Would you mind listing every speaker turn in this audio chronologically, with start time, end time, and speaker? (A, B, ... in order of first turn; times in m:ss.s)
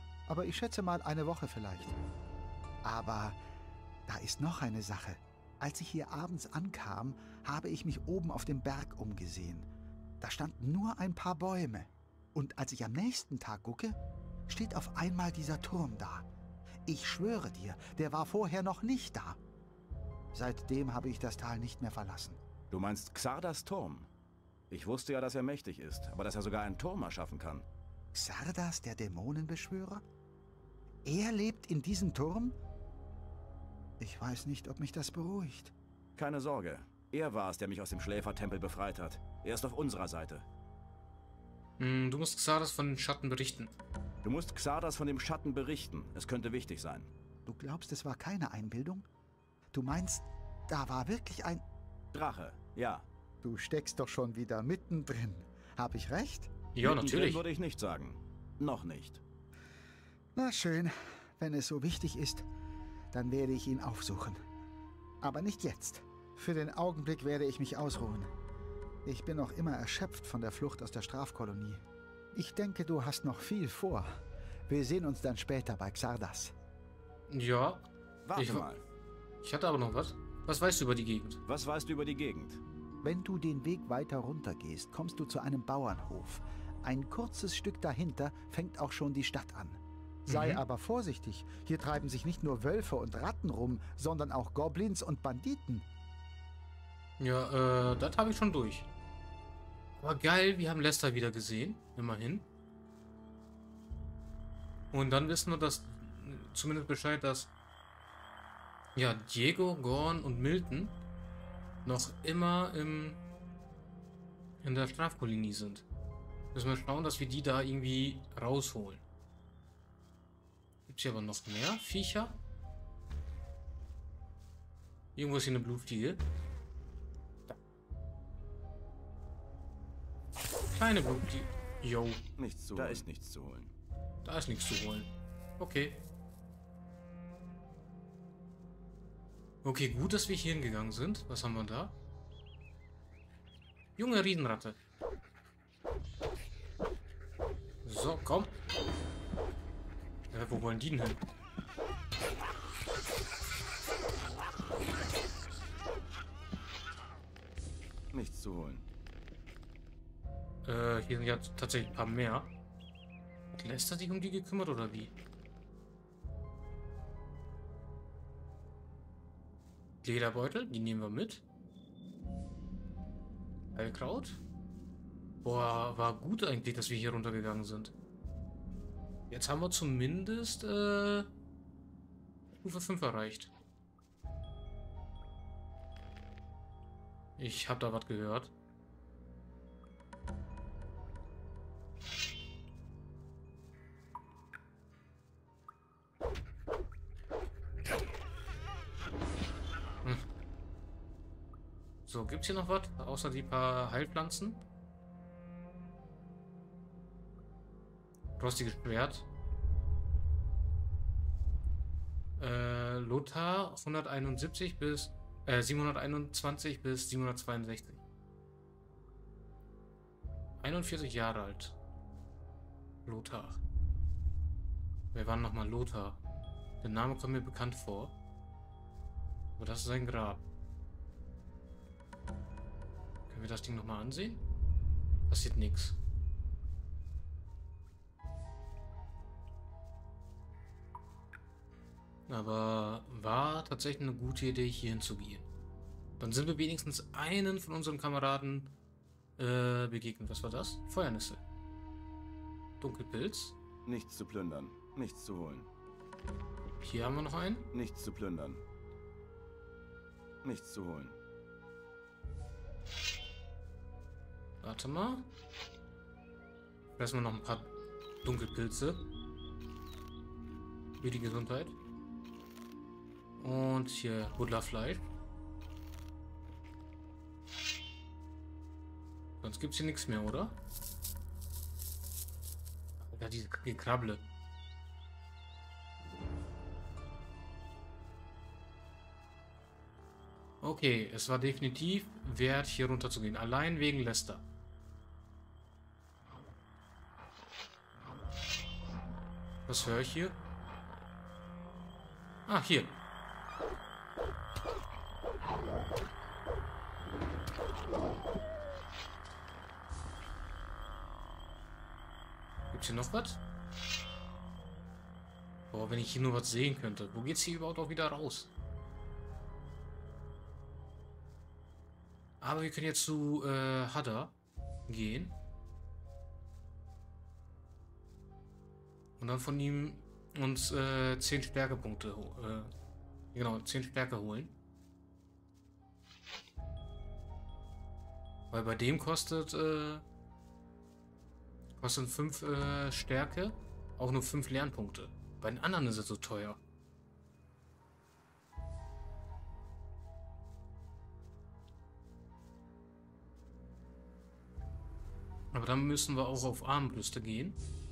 0:00.3-0:02.0 A
0:02.8-0:03.4 A
0:04.1-0:09.7 A
0:10.2-0:16.3 A
0:16.9-0:19.4 A
0:20.3-0:22.4 A
0:22.7-0:24.1 B
0:24.7-0:27.7 B
0:28.1-0:30.0 A
0:31.0-0:32.6 A
0:34.0-0:35.7 A
0:36.2-0:40.4 B
0:41.8-0:43.8 C
0:44.2-0:47.1 B
0:47.5-0:49.1 A
0:49.7-0:51.6 A
0:52.1-0:53.1 B
0:53.4-0:56.5 A
0:56.7-0:57.4 C
0:56.8-0:59.2 B
1:00.4-1:02.5 A
1:03.1-1:04.4 A
1:05.2-1:08.3 A
1:09.0-1:14.1 A
1:14.7-1:16.5 A
1:17.3-1:18.7 C
1:18.3-1:18.8 B
1:19.4-1:21.4 C
1:21.5-1:22.6 B
1:23.0-1:35.9 A
1:30.3-1:30.6 C
1:37.2-1:38.9 C
1:40.0-1:42.5 C
1:44.9-1:47.5 C
1:49.0-1:51.0 C
1:51.8-1:53.2 C
1:54.6-1:55.8 C
1:56.5-1:59.0 C
2:00.9-2:02.4 C
2:05.2-2:06.2 C
2:10.7-2:13.0 C
2:12.4-2:13.7 B
2:14.2-2:16.0 C
2:19.6-2:22.0 C
2:24.0-2:24.8 C
2:27.8-2:28.6 C
2:30.3-2:31.2 C
2:38.1-2:38.8 B
2:40.6-2:42.5 C
2:43.5-2:45.1 C
2:50.0-2:51.4 C
2:53.8-2:54.4 C
2:55.4-2:57.9 C
2:59.3-3:01.3 C
3:02.5-3:03.5 C
3:07.4-3:08.5 C
3:22.1-3:24.6 C
3:28.4-3:29.3 C
3:32.4-3:38.0 C
3:40.6-3:41.8 C
3:43.1-3:43.6 C
3:45.1-3:46.2 C
3:46.8-3:48.2 C
3:49.6-3:50.4 C
3:53.3-3:54.4 C
3:55.3-3:56.0 C
4:02.3-4:05.5 C
4:06.2-4:08.7 C
4:09.4-4:11.4 C
4:12.8-4:13.6 C
4:13.9-4:15.7 B
4:16.8-4:17.7 C
4:17.7-4:18.6 B
4:20.4-4:21.2 B
4:24.6-4:25.3 C
4:27.0-4:29.1 C
4:31.0-4:31.8 C
4:33.4-4:35.0 C
4:39.4-4:40.6 C
4:43.0-4:44.3 C
4:50.6-4:54.4 C
4:59.7-5:00.4 C
5:02.5-5:03.0 C
5:12.7-5:13.4 C
5:15.7-5:18.5 C
5:22.4-5:24.4 C
5:24.9-5:25.4 C
5:29.2-5:32.7 C
5:33.3-5:34.6 C
5:38.5-5:40.0 C
5:41.8-5:46.6 C
5:55.5-5:57.6 C